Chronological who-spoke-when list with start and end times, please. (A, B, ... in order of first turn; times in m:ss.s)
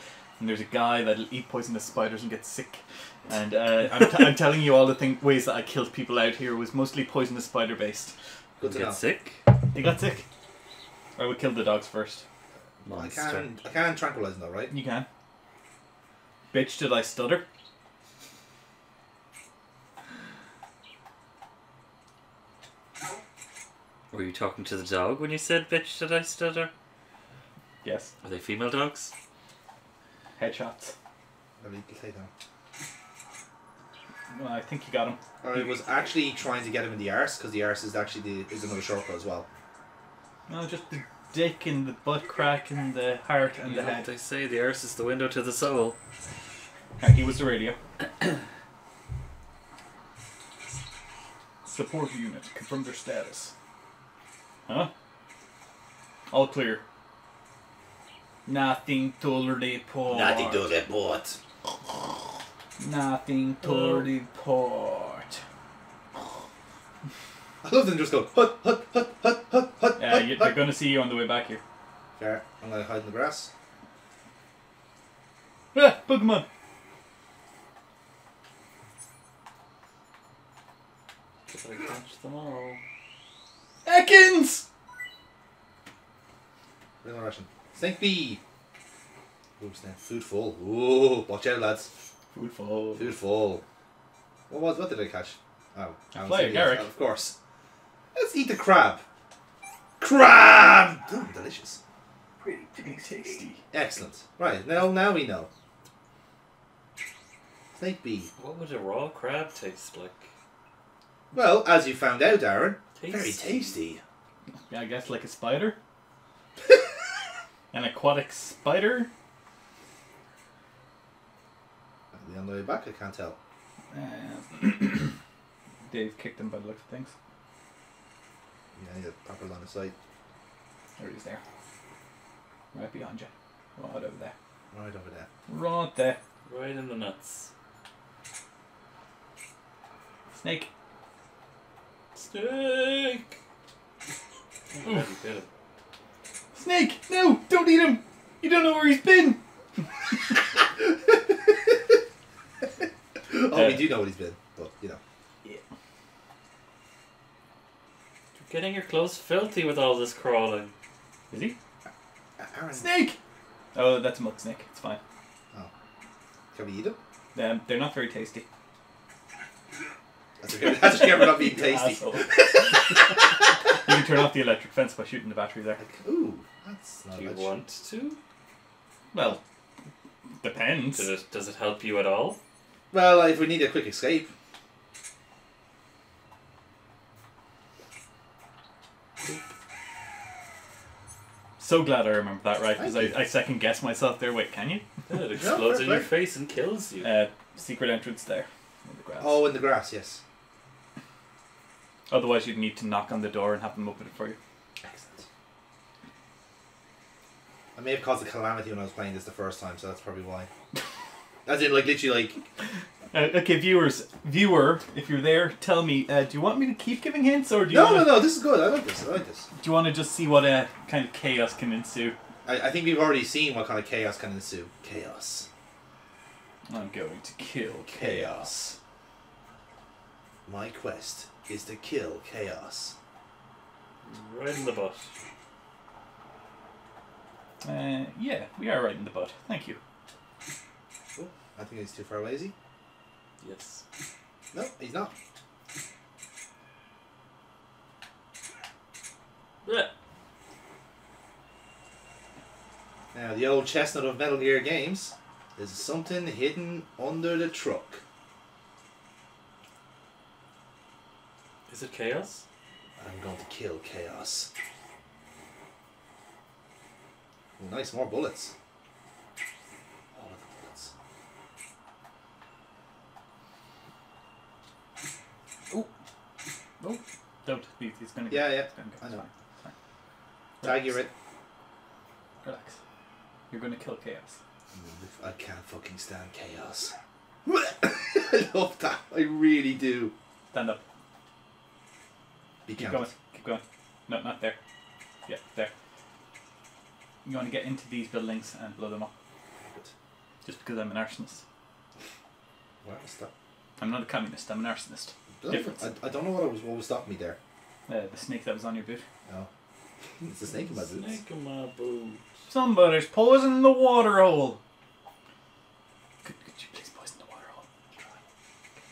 0:00.4-0:08.1 A
0:08.6-0:09.0 B
0:08.6-0:09.4 C
0:09.7-0:10.3 A
0:11.2-0:12.2 A
0:12.8-0:13.5 C
0:12.8-0:14.7 B
0:14.7-0:15.0 A
0:16.5-0:17.4 A
0:24.1-0:26.7 C
0:27.8-0:28.1 A
0:28.2-0:29.1 C
0:30.4-0:30.9 A
0:31.6-0:32.3 B
0:34.3-0:35.2 A
0:35.4-0:39.5 B
0:40.5-0:44.1 A
0:43.6-0:46.0 C
0:47.0-0:47.8 A
0:51.6-0:53.5 A
0:56.3-0:56.8 A
0:58.4-1:00.7 A
1:00.1-1:01.4 B
1:02.8-1:05.4 A
1:03.6-1:04.1 C
1:07.6-1:10.6 B
1:10.0-1:11.6 A
1:12.2-1:13.5 B
1:15.7-1:16.4 A
1:21.5-1:22.8 C
1:23.8-1:24.6 A
1:27.0-1:28.4 B
1:29.6-1:31.9 B
1:32.3-1:33.2 A
1:32.9-1:33.6 B
1:34.5-1:37.3 B
1:36.1-1:36.9 A
1:38.1-1:39.0 B
1:40.0-1:41.8 B
1:42.4-1:42.8 C
1:42.8-1:43.6 A
1:43.7-1:45.5 B
1:47.8-1:48.3 B
1:48.4-1:50.3 C
1:51.3-1:54.0 B
1:53.0-1:53.7 C
1:54.7-1:55.8 A
1:57.7-1:59.1 A
2:02.1-2:03.4 B
2:03.9-2:05.2 A
2:05.9-2:07.1 A
2:08.8-2:09.9 B
2:11.0-2:11.4 A
2:12.7-2:14.3 A
2:14.7-2:15.3 B
2:15.5-2:16.2 A
2:16.4-2:17.5 C
2:20.3-2:20.7 A
2:22.1-2:23.3 C
2:24.7-2:25.5 C
2:26.5-2:29.4 A
2:30.8-2:31.7 B
2:33.3-2:35.0 B
2:33.5-2:34.0 A
2:38.4-2:40.7 C
2:41.3-2:41.6 A
2:42.4-2:42.9 B
2:42.7-2:43.2 A
2:43.7-2:45.0 A
2:46.5-2:47.0 B
2:47.3-2:48.4 A
2:50.4-2:53.2 B
2:50.9-2:55.8 A
2:55.8-2:57.5 B
2:57.1-2:58.2 C
2:59.1-2:59.4 A
3:00.4-3:01.1 A
3:00.9-3:02.4 C
3:02.9-3:04.3 B
3:11.6-3:14.8 A
3:12.8-3:13.2 B
3:15.1-3:17.1 C
3:15.4-3:16.1 B
3:17.0-3:19.5 A
3:19.2-3:20.2 B
3:22.1-3:24.4 A
3:24.8-3:25.2 B
3:27.8-3:30.5 B
3:31.4-3:32.4 B
3:33.1-3:38.3 A
3:37.7-3:39.5 B
3:39.6-3:42.2 A
3:42.4-3:45.5 B
3:46.7-3:48.8 A
3:47.9-3:48.5 B
3:50.4-3:52.9 B
3:54.0-3:55.1 C
3:57.6-3:59.8 A
4:01.1-4:02.5 B
4:03.4-4:03.8 C
4:04.5-4:05.1 B
4:09.6-4:09.9 C
4:13.1-4:18.0 B
4:21.7-4:22.4 C
4:23.0-4:24.5 B
4:27.6-4:28.5 B
4:30.1-4:30.9 B
4:36.8-4:39.7 A
4:38.3-4:39.2 B
4:40.6-4:41.0 A
4:40.6-4:41.1 B
4:42.4-4:42.8 A
4:43.5-4:44.4 A
4:44.7-4:46.9 B
4:47.4-4:50.1 B
4:50.5-4:50.8 A
4:52.6-4:53.1 B
4:52.7-4:54.6 A
4:55.3-4:55.7 A
4:57.2-4:59.1 A
4:59.6-4:59.9 B
5:00.4-5:01.4 A
5:02.8-5:03.3 B
5:03.8-5:05.8 A
5:05.4-5:07.4 B
5:07.9-5:09.0 A
5:10.2-5:11.2 B
5:10.5-5:12.2 C
5:12.5-5:14.6 A
5:16.2-5:17.6 A